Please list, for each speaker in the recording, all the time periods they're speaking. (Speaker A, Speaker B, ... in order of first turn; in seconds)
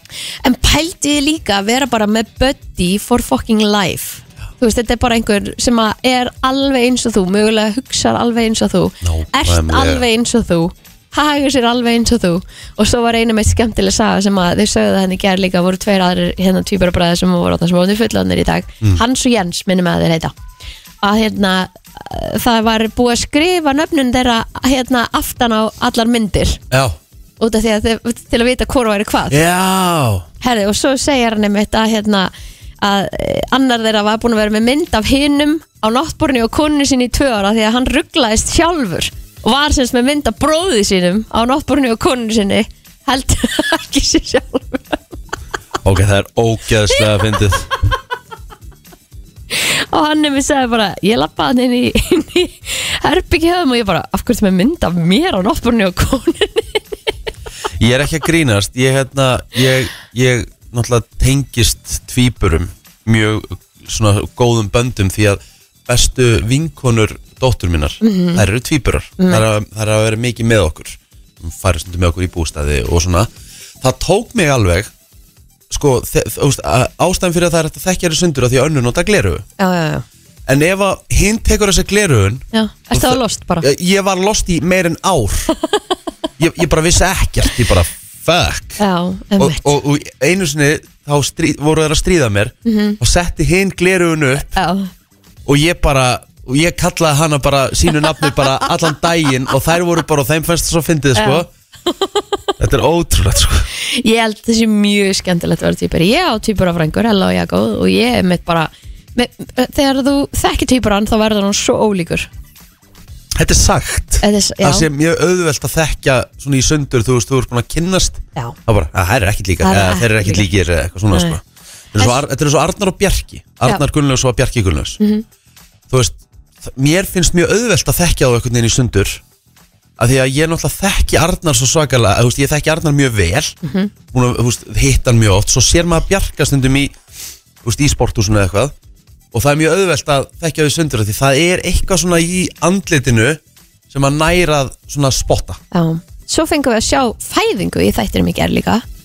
Speaker A: 0.4-20.3, 21.0-26.6, 27.4-29.4, 30.4-45.1, 46.9-47.3, 49.5-56.8, 68.0-68.5, 69.2-69.5, 79.6-80.0, 82.5-83.7, 88.8-89.7, 92.7-93.0, 94.5-94.9, 98.1-98.5, 101.2-102.2, 103.7-112.3, 114.2-114.9, 119.6-120.5, 121.1-121.4, 125.0-125.2, 133.6-133.9, 145.7-148.8
Speaker B: 9.0-10.1, 26.7-27.0, 29.3-30.3, 45.8-47.7, 57.8-73.3, 73.8-74.9, 75.7-79.5, 80.5-85.5, 86.4-88.8, 89.4-94.6, 95.5-101.5, 102.6-103.7, 113.4-121.4, 121.9-125.0, 125.9-129.2, 130.0-133.6, 134.1-136.9, 137.6-138.7, 139.3-145.6